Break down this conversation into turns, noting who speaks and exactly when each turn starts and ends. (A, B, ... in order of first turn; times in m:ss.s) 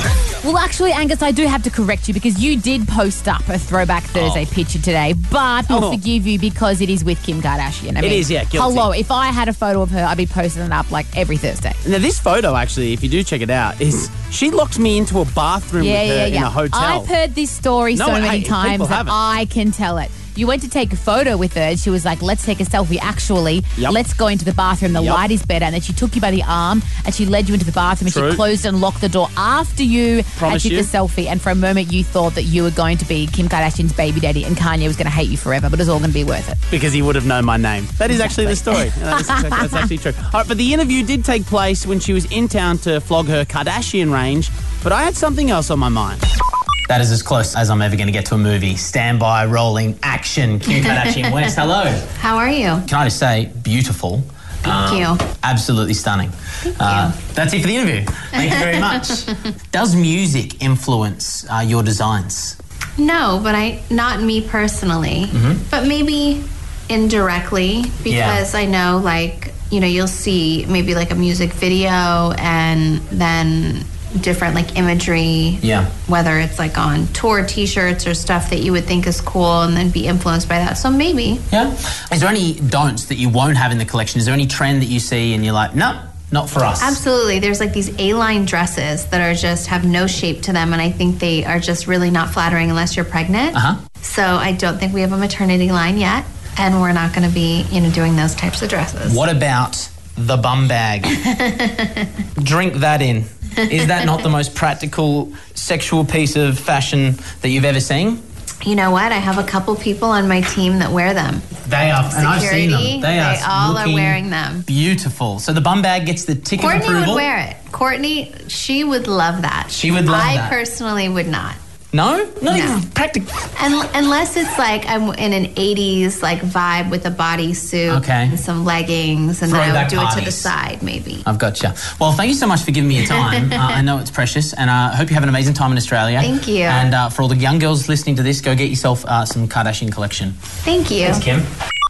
0:00.4-0:11.8 A
0:04.2-0:04.5 B
0:05.7-0:06.0 B
0:08.0-0:08.9 B
0:11.8-0:17.1 B
0:15.8-0:36.6 A
0:17.9-0:19.2 B
0:24.9-0:25.2 B
0:28.1-0:28.4 B
0:30.4-0:30.9 B
0:36.7-0:46.2 B
0:38.1-0:38.6 A
0:39.3-0:39.8 A
0:46.9-0:52.1 B
0:50.9-0:51.4 C
0:52.2-0:52.9 C
0:52.8-1:02.6 B
0:54.6-0:55.2 C
0:56.8-0:57.1 C
1:03.0-1:21.4 C
1:05.3-1:05.6 B
1:08.1-1:08.4 B
1:15.6-1:15.9 B
1:21.5-1:27.0 B
1:26.8-1:39.2 C
1:33.5-1:33.8 B
1:39.0-1:41.2 B
1:41.1-1:42.1 C
1:42.4-1:48.2 B
1:48.6-1:51.4 C
1:51.6-1:57.3 B
1:52.1-1:54.7 C
1:56.6-2:01.6 C
1:59.7-2:00.6 B
2:01.9-2:03.3 B
2:02.5-2:02.8 C
2:03.6-2:11.2 C
2:07.9-2:08.4 B
2:09.4-2:10.5 B
2:11.2-2:20.4 B
2:13.1-2:13.6 C
2:16.2-2:16.9 C
2:20.6-2:21.2 C
2:21.0-2:21.5 B